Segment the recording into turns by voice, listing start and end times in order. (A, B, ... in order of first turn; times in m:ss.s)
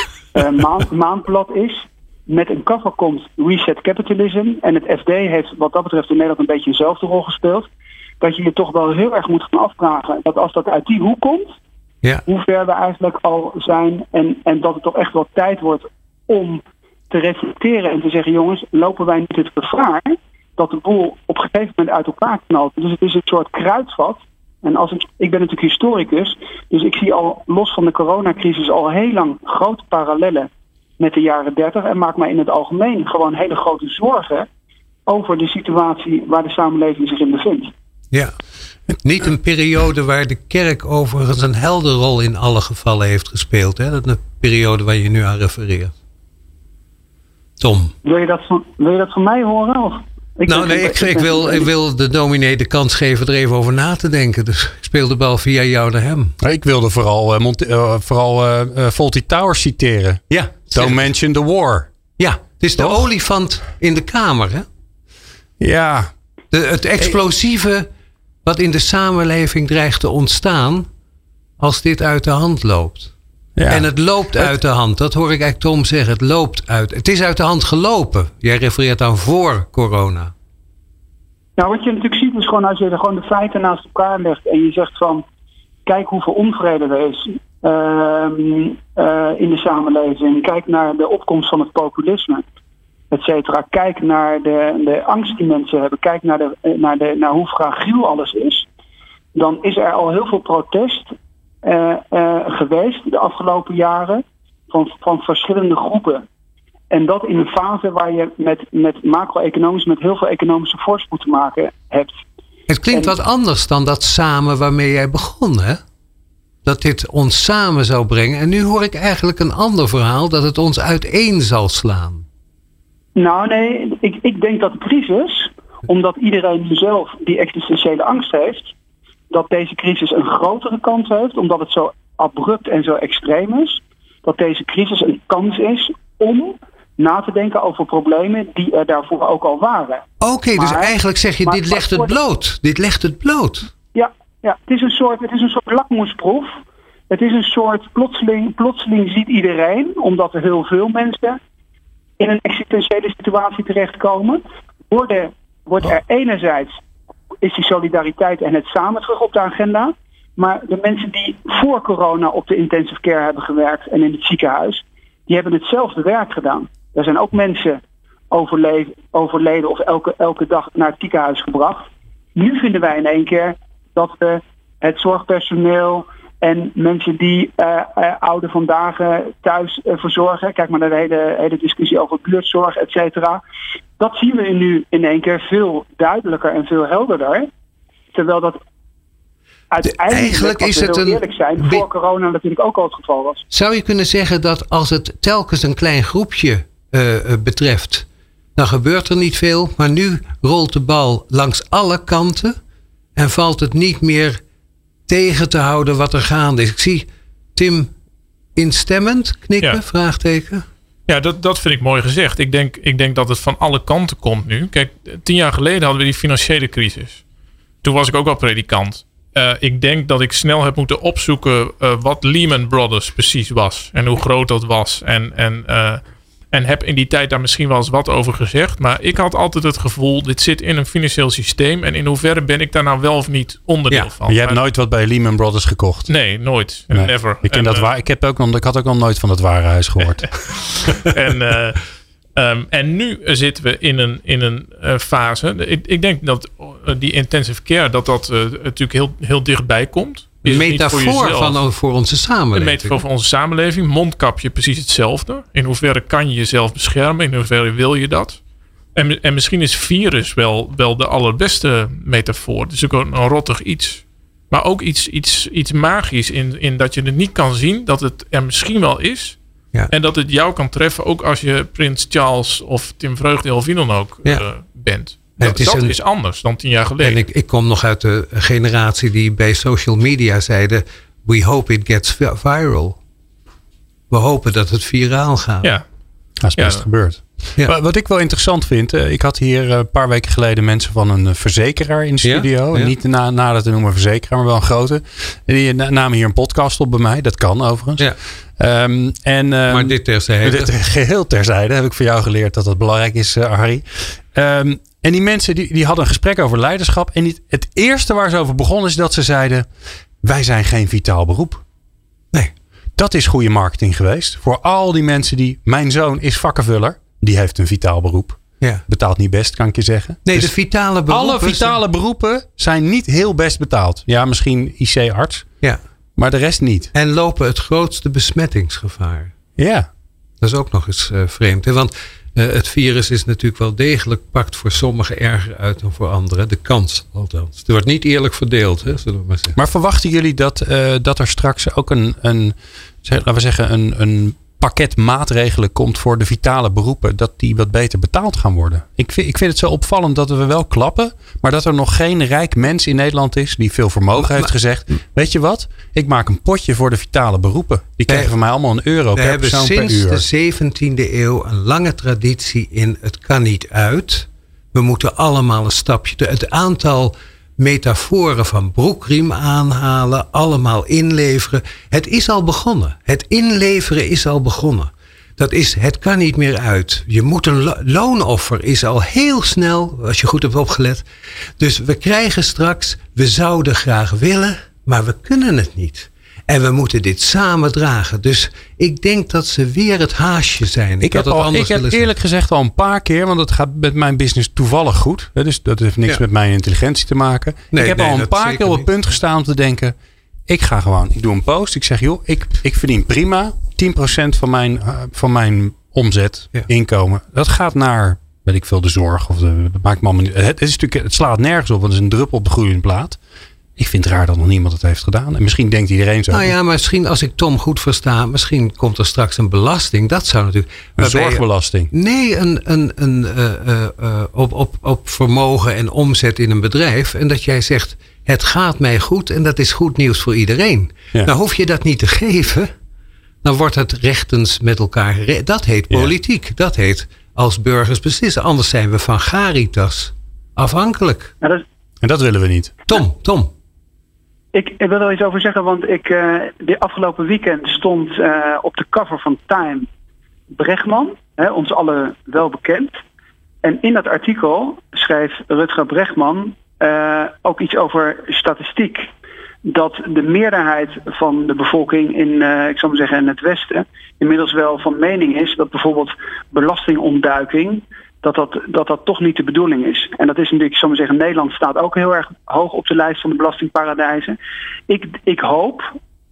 0:00.3-0:07.7 A
0:08.2-0:11.6 A
0:12.3-0:34.5 A
0:35.1-0:37.7 A
0:39.0-0:45.9 B
0:47.6-0:47.9 B
0:48.0-0:51.7 A
0:50.5-0:56.4 B
0:56.4-1:01.9 C
1:00.3-1:01.1 B
1:02.2-1:04.7 B
1:02.8-1:03.0 C
1:05.6-1:06.1 C
1:06.5-1:07.9 B
1:08.4-1:10.9 B
1:11.6-1:13.1 B
1:13.6-1:14.6 C
1:13.7-1:20.3 B
1:21.6-1:25.2 A
1:25.9-1:32.4 A
1:33.1-1:38.7 A
1:39.4-1:46.2 A
1:46.9-1:52.2 A
1:52.7-1:55.8 B
1:56.6-2:02.2 B
2:03.2-2:08.7 A
2:09.3-2:22.2 A
2:20.2-2:23.7 B
2:24.0-2:26.6 A
2:27.1-2:31.4 A
2:32.2-2:36.8 A
2:37.4-3:03.4 A
3:04.0-3:07.5 A
3:08.1-3:08.6 A
3:09.7-3:13.4 A
3:09.8-3:11.8 B
3:13.5-3:22.6 B
3:23.2-3:24.4 B
3:25.1-3:27.9 B
3:28.6-3:30.7 B
3:31.1-3:37.2 D
3:37.8-3:54.6 D
3:54.3-3:56.1 C
3:56.1-3:57.9 D
3:56.9-4:00.9 C
4:00.2-4:01.8 D
4:02.4-4:11.6 D
4:10.4-4:13.0 B
4:12.5-4:18.4 D
4:19.0-4:29.4 D
4:29.9-4:37.2 D
4:35.4-4:36.0 B
4:37.0-4:43.0 B
4:44.1-4:45.7 B
4:46.4-5:09.7 C
4:46.6-4:46.9 D
4:52.2-4:52.9 B
4:59.7-5:00.7 B
5:10.2-5:11.6 C
5:13.0-5:20.5 C
5:20.2-5:21.8 B
5:21.1-5:25.5 C
5:26.2-5:26.9 C
5:26.9-5:29.3 B
5:29.6-5:29.9 C
5:30.4-5:39.6 B
5:39.6-6:00.2 C
5:54.2-5:54.5 B
5:59.2-6:21.0 B
6:21.6-6:32.1 B
6:31.0-6:40.0 C
6:37.7-6:38.8 B
6:40.5-6:53.2 C
6:53.8-6:56.6 C
6:56.3-7:12.7 B
7:01.0-7:01.9 C
7:13.4-7:21.3 B
7:15.9-7:16.2 C
7:22.0-7:22.8 C
7:22.9-7:23.5 B
7:24.5-7:29.9 A
7:30.5-7:33.0 A
7:33.6-7:39.1 A
7:39.6-7:54.4 A
7:54.9-7:55.9 A